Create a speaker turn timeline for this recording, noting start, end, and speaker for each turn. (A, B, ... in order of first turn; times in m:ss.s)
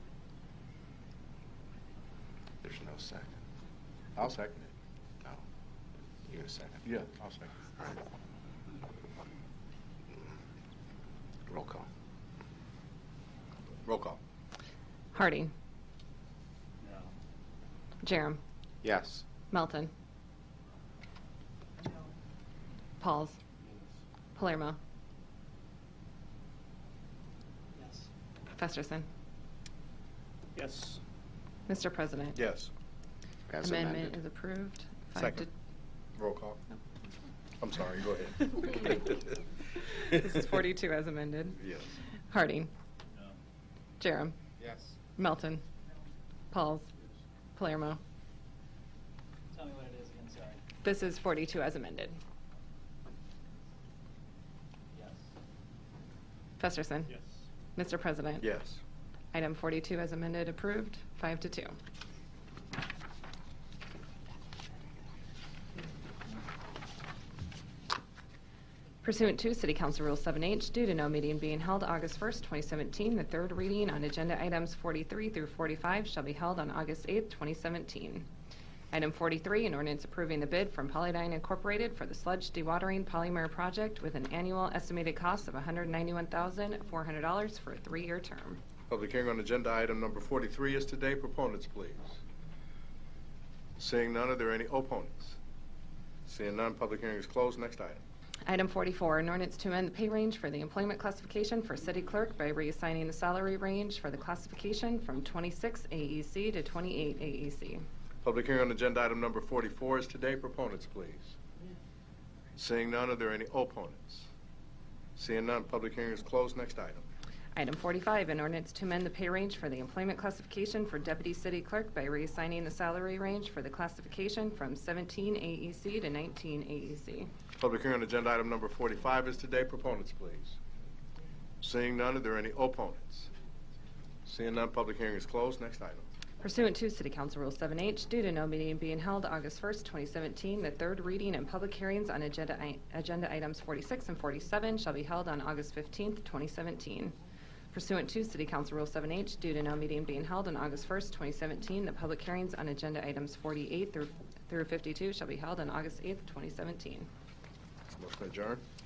0:02.6-0:03.4 A
0:04.2-0:04.7 B
0:06.2-0:06.9 A
0:06.8-0:07.6 B
0:11.5-0:11.9 A
0:13.8-0:14.2 B
0:15.1-0:15.5 C
0:16.8-0:17.1 D
0:18.0-0:18.4 C
0:18.8-0:19.2 A
0:19.5-0:19.9 C
0:23.0-0:23.4 C
0:24.4-0:24.8 C
0:27.8-0:28.1 D
0:28.6-0:29.1 C
0:30.6-0:31.0 D
0:31.7-0:32.4 C
0:32.3-0:32.7 B
0:33.5-0:34.2 A
0:33.6-0:35.5 C
0:35.2-0:35.4 B
0:36.2-0:36.6 B
0:37.6-0:39.1 B
0:39.8-0:41.6 C
0:41.6-0:41.9 B
0:42.3-0:42.7 C
0:43.1-0:43.4 D
0:44.0-0:44.4 C
0:45.2-0:45.6 C
0:46.5-0:46.9 C
0:47.6-0:48.0 C
0:49.5-0:50.6 D
0:50.8-0:52.2 C
0:54.9-0:55.2 D
0:56.6-0:57.1 C
0:57.1-0:57.4 D
0:57.8-0:58.4 C
0:58.4-0:58.8 B
0:59.3-1:01.8 C
1:09.0-1:18.2 C
1:18.9-1:28.6 C
1:28.9-1:32.2 B
1:33.8-1:35.4 B
1:36.2-1:38.0 B
1:38.4-1:47.8 C
1:48.2-1:51.4 B
1:52.6-1:54.3 B
1:55.2-1:57.1 B
1:57.6-2:07.3 C
2:07.6-2:10.6 B
2:11.6-2:13.3 B
2:14.2-2:16.0 B
2:16.4-2:27.1 C
2:27.7-2:37.1 C
2:38.0-2:38.6 B